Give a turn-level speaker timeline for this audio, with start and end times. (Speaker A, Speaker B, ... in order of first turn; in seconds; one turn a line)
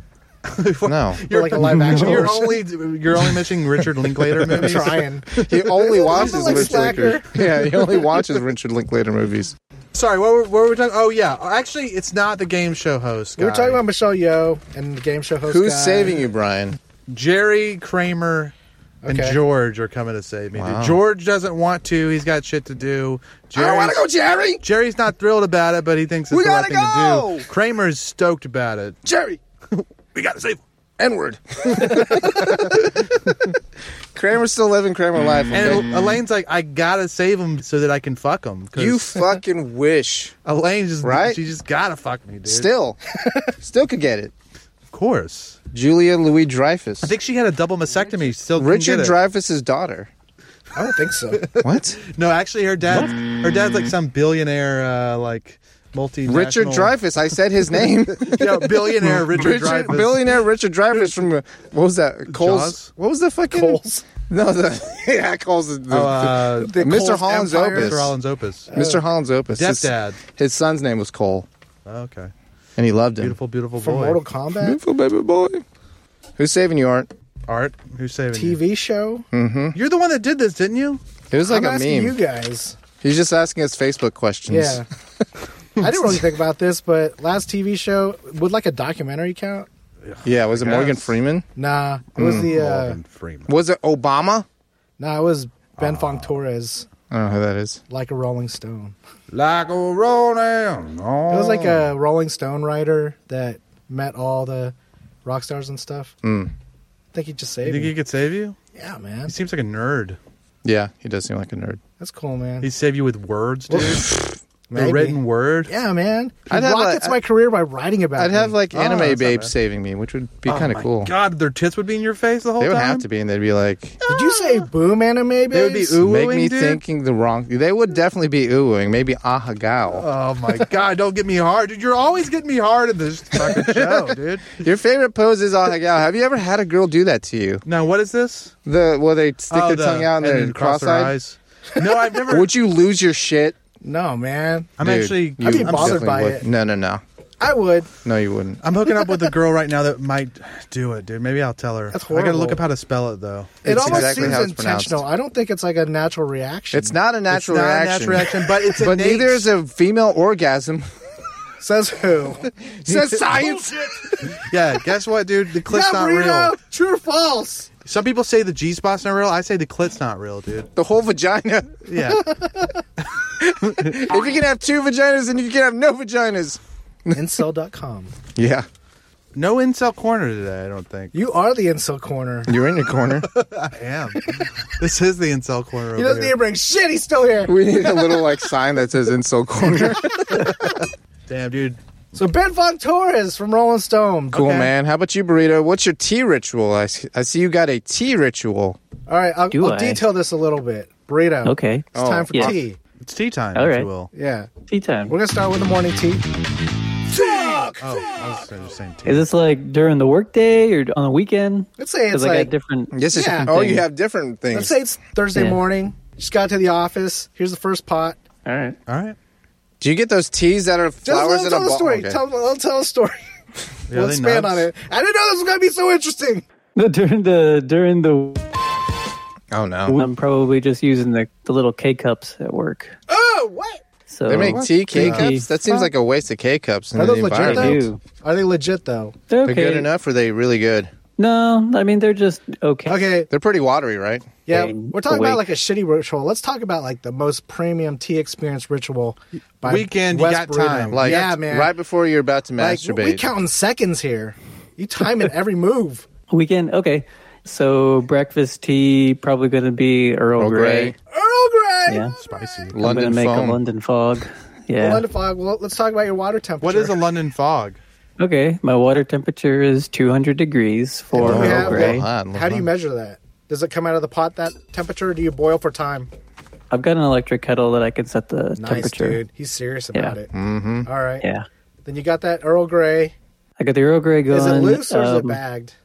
Speaker A: 0.5-8.1
Speaker B: 0.8-1.3
Speaker C: 1.3-2.6
Speaker D: 1.9-2.2
Speaker C: 4.5-5.5
Speaker B: 5.4-9.6
Speaker C: 6.0-7.4
Speaker A: 9.9-13.8
Speaker C: 13.4-16.2
Speaker B: 15.5-16.8
Speaker A: 17.1-18.5
Speaker C: 19.0-19.4
Speaker A: 19.1-24.1
Speaker B: 20.6-21.0
Speaker B: 23.5-24.6
Speaker A: 24.6-29.0
Speaker B: 26.3-27.5
Speaker B: 29.1-29.4
Speaker A: 29.8-30.6
Speaker B: 31.0-33.4
Speaker A: 31.7-32.9
Speaker B: 34.1-36.0
Speaker A: 35.5-39.3
Speaker B: 38.8-40.4
Speaker A: 40.5-42.7
Speaker B: 41.0-41.4
Speaker B: 42.5-43.0
Speaker B: 43.6-44.3
Speaker A: 44.9-45.6
Speaker B: 45.7-47.1
Speaker A: 47.0-49.2
Speaker B: 48.5-50.1
Speaker C: 50.8-51.5
Speaker A: 51.3-57.0
Speaker B: 51.6-52.0
Speaker B: 56.3-68.2
Speaker A: 58.1-60.4
Speaker A: 62.3-62.9
Speaker C: 63.5-64.0
Speaker A: 65.9-66.8
Speaker C: 66.6-68.1
Speaker A: 67.7-68.7
Speaker C: 68.7-69.0
Speaker B: 68.7-71.5
Speaker A: 69.5-70.2
Speaker A: 71.9-72.3
Speaker B: 72.8-73.4
Speaker A: 73.2-74.2
Speaker C: 73.8-74.8
Speaker B: 74.6-75.6
Speaker B: 76.4-77.1
Speaker A: 77.5-78.6
Speaker C: 78.3-79.3
Speaker B: 79.3-79.8
Speaker A: 79.7-81.0
Speaker B: 81.3-82.2
Speaker C: 81.5-82.8
Speaker B: 83.0-84.8
Speaker C: 84.5-84.9
Speaker C: 85.8-89.7
Speaker A: 90.0-91.2
Speaker B: 90.2-91.5
Speaker C: 91.6-93.0
Speaker B: 92.2-92.5
Speaker A: 92.2-93.5
Speaker B: 93.5-94.5
Speaker C: 95.0-96.9
Speaker A: 95.8-96.3
Speaker B: 97.1-97.8
Speaker C: 97.9-99.0
Speaker A: 99.3-101.9
Speaker C: 101.3-106.1
Speaker B: 106.2-106.5
Speaker C: 107.1-108.0
Speaker A: 107.6-108.6
Speaker C: 108.8-109.3
Speaker A: 109.3-110.2
Speaker B: 110.6-111.8
Speaker C: 112.0-112.7
Speaker A: 112.6-114.2
Speaker C: 113.7-118.6
Speaker A: 114.7-115.7
Speaker B: 116.5-117.2
Speaker B: 118.2-121.1
Speaker A: 118.7-119.5
Speaker A: 120.5-123.1
Speaker B: 122.6-124.0
Speaker A: 124.1-124.7
Speaker C: 124.1-126.0
Speaker A: 125.5-126.8
Speaker B: 126.0-130.1
Speaker A: 129.9-134.6
Speaker B: 133.3-137.6
Speaker A: 137.7-138.5
Speaker B: 138.7-141.2
Speaker A: 139.5-142.5
Speaker B: 142.2-143.6
Speaker C: 143.8-144.7
Speaker A: 144.8-146.1
Speaker B: 144.8-147.0
Speaker C: 145.4-146.4
Speaker C: 147.4-147.9
Speaker B: 148.1-148.6
Speaker A: 148.6-154.4
Speaker C: 151.9-152.6
Speaker B: 153.6-155.1
Speaker C: 153.6-157.0
Speaker B: 156.7-160.9
Speaker A: 157.3-159.5
Speaker C: 161.6-162.4
Speaker B: 162.8-164.1
Speaker A: 164.4-166.5
Speaker C: 165.7-167.7
Speaker A: 167.8-170.7
Speaker B: 170.8-171.9
Speaker A: 171.8-172.3
Speaker B: 173.4-177.3
Speaker C: 177.1-178.1
Speaker B: 178.3-178.7
Speaker A: 179.3-181.1
Speaker C: 181.1-182.5
Speaker B: 182.5-183.3
Speaker A: 183.3-186.4
Speaker C: 186.0-188.2
Speaker B: 187.5-190.5
Speaker A: 191.3-191.8
Speaker C: 192.1-194.6
Speaker A: 194.3-194.7
Speaker B: 194.3-198.8
Speaker C: 199.1-202.8
Speaker D: 199.5-200.0
Speaker D: 201.4-202.5
Speaker B: 201.9-202.6
Speaker A: 203.0-204.1
Speaker D: 203.6-203.9
Speaker C: 204.1-204.5
Speaker D: 204.7-205.2
Speaker C: 205.1-206.2
Speaker C: 207.1-207.9
Speaker A: 207.8-209.3
Speaker D: 209.1-213.8
Speaker C: 211.8-212.5
Speaker B: 212.9-214.8
Speaker C: 213.1-213.5
Speaker C: 214.5-218.2
Speaker D: 215.3-215.6
Speaker D: 218.5-218.8
Speaker A: 218.9-219.2
Speaker B: 219.8-222.2
Speaker C: 221.1-223.2
Speaker A: 223.9-224.7
Speaker C: 223.9-226.4
Speaker D: 226.8-228.5
Speaker B: 229.5-230.0
Speaker D: 229.9-232.9
Speaker C: 233.1-233.8
Speaker D: 234.1-235.5
Speaker B: 234.3-237.9
Speaker A: 234.4-235.3
Speaker C: 237.0-239.2
Speaker D: 237.3-238.0
Speaker D: 239.3-239.9
Speaker B: 239.4-240.9
Speaker D: 241.2-243.0
Speaker C: 242.9-243.3
Speaker B: 243.3-244.3
Speaker C: 244.5-251.7
Speaker D: 244.5-245.4
Speaker A: 249.6-251.4
Speaker B: 250.9-253.3
Speaker C: 252.6-256.1
Speaker D: 256.3-260.9
Speaker B: 260.4-261.0
Speaker C: 261.1-262.1
Speaker D: 261.9-262.2
Speaker A: 262.2-262.8
Speaker B: 262.7-263.6
Speaker D: 262.8-265.0
Speaker C: 264.8-267.0
Speaker A: 266.6-267.8
Speaker D: 268.2-272.1
Speaker C: 271.1-276.1
Speaker B: 271.1-272.7
Speaker D: 276.7-279.2
Speaker C: 278.6-280.3
Speaker B: 280.3-280.9
Speaker C: 280.9-281.2
Speaker D: 281.2-281.5
Speaker C: 281.9-283.1
Speaker D: 283.6-285.4
Speaker C: 284.3-285.7